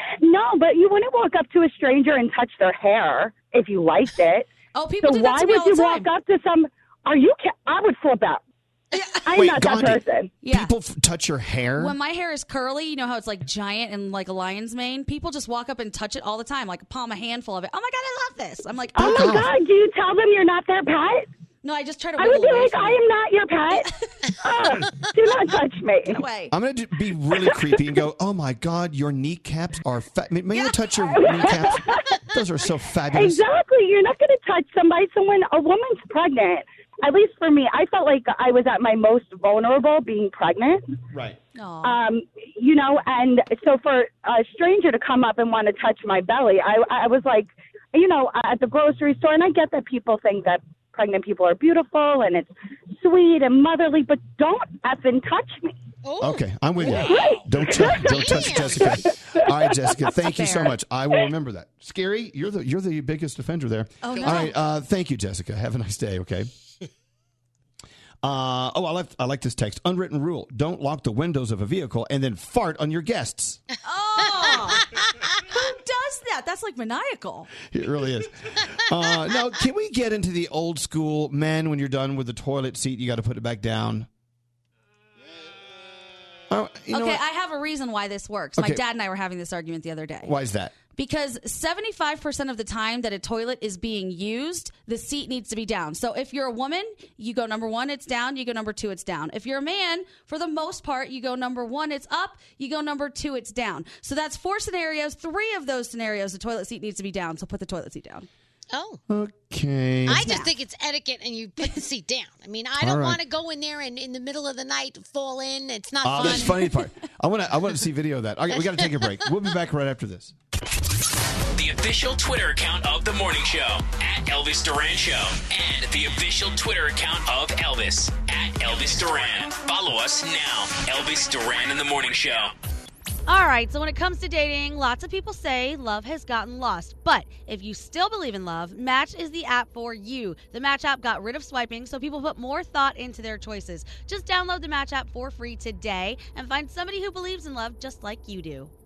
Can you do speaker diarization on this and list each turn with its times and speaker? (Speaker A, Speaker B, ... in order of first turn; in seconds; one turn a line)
Speaker A: 0.2-4.5
Speaker B: 4.7-6.1
Speaker A: 5.0-8.4
Speaker B: 8.9-9.2
Speaker A: 9.3-10.3
Speaker C: 9.3-11.9
Speaker B: 10.4-10.7
Speaker B: 11.8-19.4
Speaker C: 18.9-19.5
Speaker A: 19.0-21.3
Speaker B: 21.6-23.0
Speaker A: 22.2-23.9
Speaker A: 24.4-26.2
Speaker B: 26.1-26.5
Speaker C: 26.5-33.4
Speaker A: 31.1-31.8
Speaker A: 33.1-40.8
Speaker B: 41.5-42.0
Speaker A: 41.8-55.7
Speaker D: 56.0-56.4
Speaker C: 56.2-66.5
Speaker D: 57.0-59.0
Speaker A: 57.1-58.0
Speaker B: 60.3-60.7
Speaker B: 64.0-64.5
Speaker C: 68.2-73.6
Speaker B: 73.8-74.8
Speaker D: 74.5-75.0
Speaker B: 75.5-77.5
Speaker C: 77.7-84.1
Speaker C: 86.5-87.2
Speaker B: 86.9-90.3
Speaker C: 88.6-88.8
Speaker C: 90.2-90.7
Speaker B: 91.0-108.3
Speaker D: 108.7-109.0
Speaker C: 109.1-110.3
Speaker D: 110.0-116.6
Speaker B: 110.2-110.5
Speaker C: 112.8-113.2
Speaker C: 116.0-120.3
Speaker B: 116.2-116.5
Speaker D: 118.5-119.3
Speaker E: 121.5-132.5
Speaker B: 133.3-148.7